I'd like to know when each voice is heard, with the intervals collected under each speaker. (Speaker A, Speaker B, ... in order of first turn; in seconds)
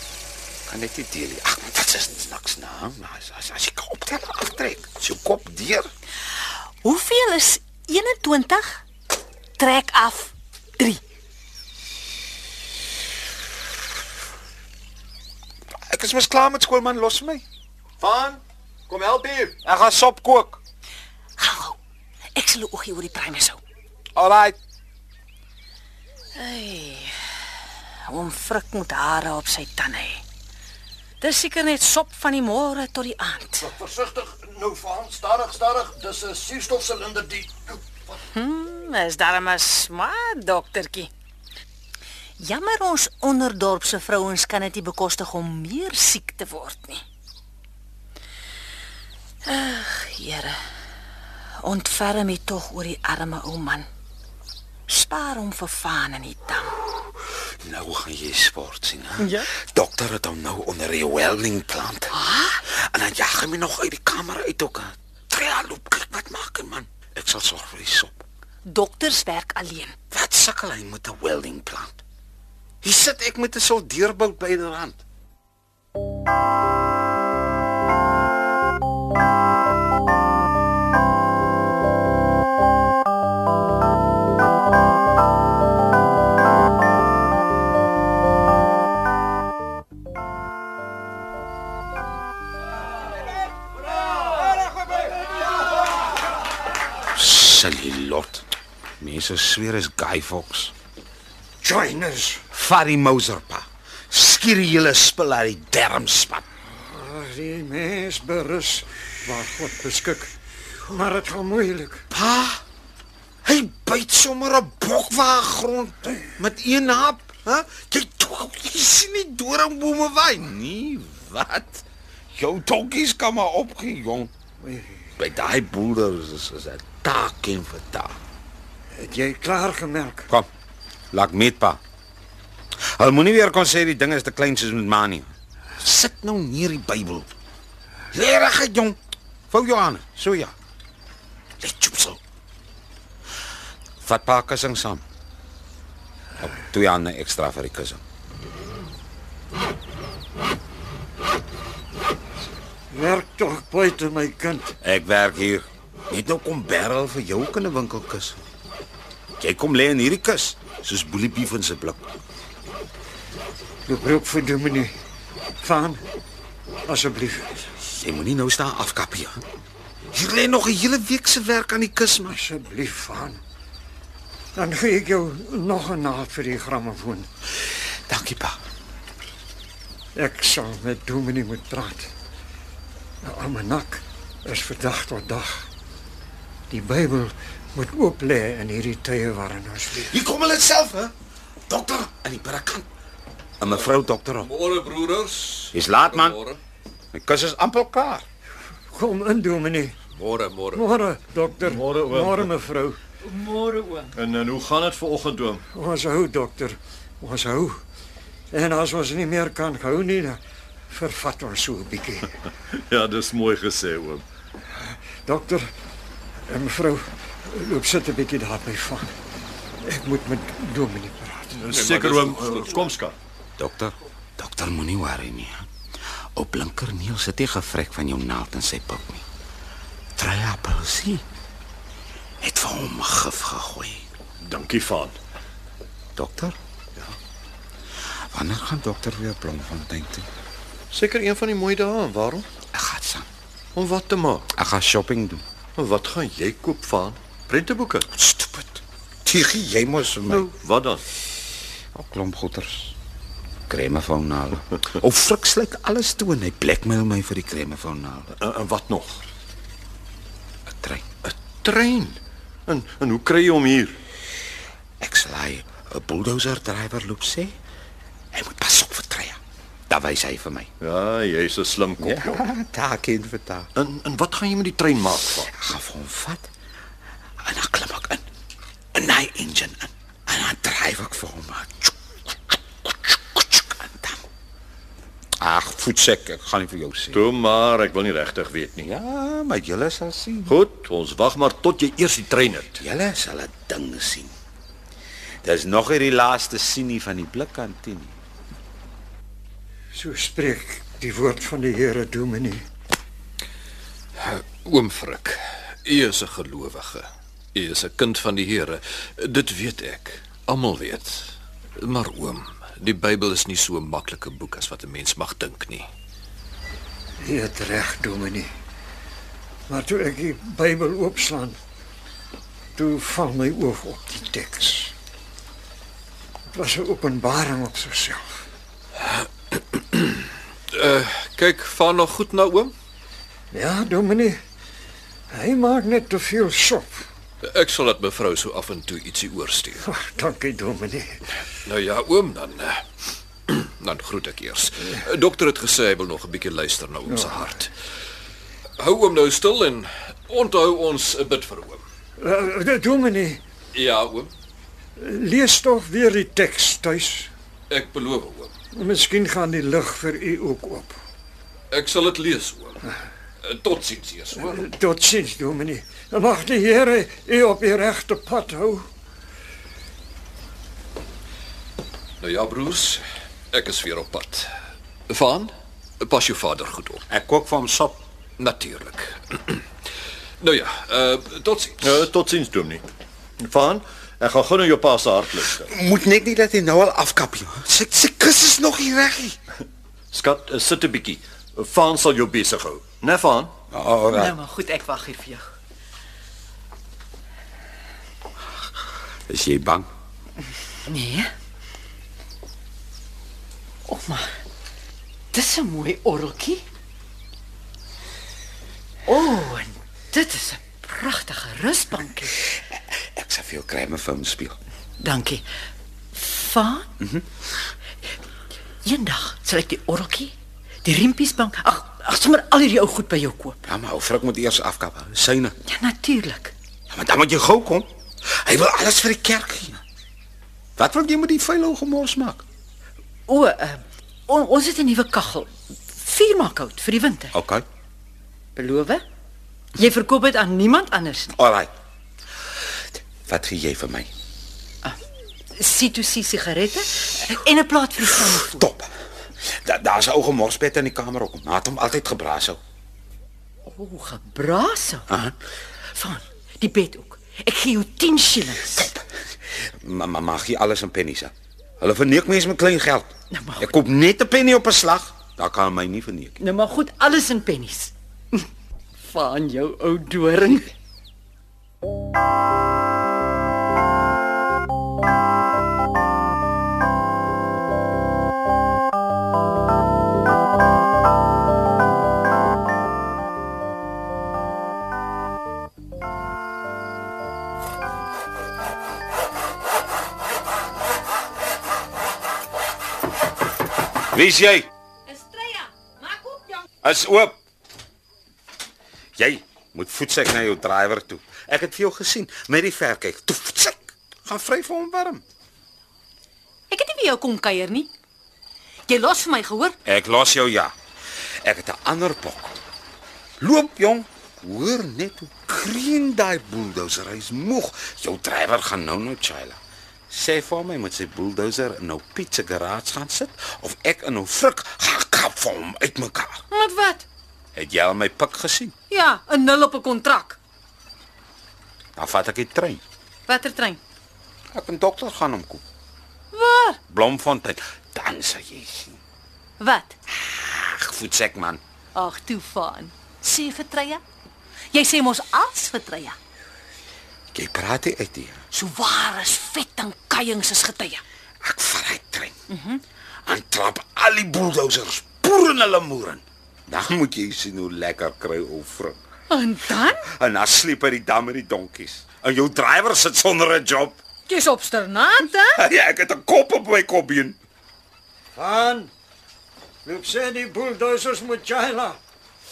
Speaker A: 0.7-5.9, 15.9-17.4, 19.6-20.6, 24.1-24.6, 57.6-68.2, 70.1-72.0, 72.8-75.0, 97.1-98.5, 99.0-100.7, 102.5-106.5, 112.1-112.6, 113.4-124.3, 125.2-128.2, 131.1-131.8, 132.9-137.3, 138.1-139.0, 139.5-140.5, 141.6-142.2, 144.0-145.0, 146.4-148.0, 154.8-158.4, 159.4-162.1, 167.8-169.4, 170.1-172.4, 178.1-178.6, 189.9-191.1, 191.7-192.9, 193.6-194.5, 195.7-196.4, 197.1-198.2, 223.6-225.7, 226.3-229.2, 230.2-231.2, 232.4-234.1, 236.2-236.6, 238.3-240.3, 242.7-243.3, 244.5-245.4, 248.1-250.5, 251.9-252.9, 253.7-258.3, 260.7-261.1, 265.0-267.6, 268.3-270.7, 272.0-273.7, 275.5-276.5, 277.4-278.2, 278.9-284.2, 285.4-287.2, 288.8-290.6, 292.8-294.3, 295.4-298.1, 377.1-378.0, 385.6-389.4, 393.7-394.4, 399.3-399.9, 412.7-414.6, 417.0-417.3, 423.6-425.6, 426.9-429.8, 430.8-432.4, 437.3-437.6, 441.3-441.7, 443.2-444.1, 448.4-448.9, 449.4-452.6, 455.1-455.4, 458.7-466.4, 494.1-494.7, 496.8-497.4, 499.2-505.2, 509.8-510.7, 511.4-512.6, 513.4-519.6, 520.1-526.4, 527.5-528.7, 532.0-532.8, 534.5-535.6, 536.9-539.0, 540.1-541.6, 547.3-548.4, 551.4-552.4, 553.2-559.0, 559.9-564.0, 565.4-567.4
Speaker B: 6.8-8.8, 9.6-11.0, 21.4-21.8, 22.4-23.6, 26.4-27.1, 28.1-30.2, 31.2-33.7, 38.3-41.1, 42.4-47.0, 49.4-50.6, 51.6-53.9, 54.9-56.7, 59.2-59.5, 62.1-62.6, 68.7-69.9, 495.1-496.6, 506.7-507.9, 508.9-509.7, 526.5-527.0, 528.9-530.4, 533.3-533.8, 536.3-536.8, 539.6-539.9, 541.9-544.0, 544.7-546.2, 548.5-551.0, 552.5-552.8, 559.3-560.1, 564.3-565.6
Speaker C: 18.0-19.6, 33.6-38.2, 201.6-202.5, 204.1-205.6, 212.7-214.2, 221.6-223.1, 234.4-235.2, 240.9-242.4, 243.8-244.5, 245.8-248.1, 250.3-251.0, 258.4-259.2, 261.2-263.9, 270.8-272.4, 273.8-275.5, 287.1-288.9, 290.5-292.8, 381.8-382.8, 383.4-385.7, 390.1-393.5
Speaker D: 101.6-102.4, 106.8-110.3, 110.9-112.0, 124.6-125.1, 128.9-130.3, 152.9-154.8, 163.8-164.9, 165.6-166.0, 166.9-167.7, 172.3-173.4, 174.6-177.3, 180.2-182.1, 183.2-185.7, 186.7-190.1, 198.9-199.9, 200.7-203.0, 205.7-207.8, 208.5-212.3, 215.2-215.7, 216.5-219.1, 219.8-221.6, 299.9-302.6, 317.2-318.5, 319.7-321.6, 322.8-324.9, 326.5-328.4, 333.5-334.4, 335.3-337.0, 339.8-341.2, 352.2-353.4, 355.0-357.3, 358.7-361.0, 364.3-368.9, 568.4-568.9, 569.8-572.0
Speaker E: 193.6-196.6, 200.1-200.8, 221.7-222.9, 304.2-315.9, 329.0-332.7, 337.4-339.8, 341.6-342.8, 343.5-347.7, 348.8-351.8, 353.7-354.3, 357.7-358.5, 361.7-362.8, 363.4-364.6, 372.2-374.5, 375.1-377.0, 378.4-379.6, 380.4-382.1
Speaker F: 203.2-204.1, 394.1-395.4, 400.9-401.3, 403.9-404.4, 405.3-406.6, 409.1-412.4, 415.0-415.4, 416.1-416.9, 418.8-423.6, 425.6-426.5, 433.3-437.4, 438.6-439.0, 439.8-441.4, 445.5-448.7, 453.6-455.0, 455.9-458.9, 463.3-463.7, 466.4-468.5, 469.0-470.7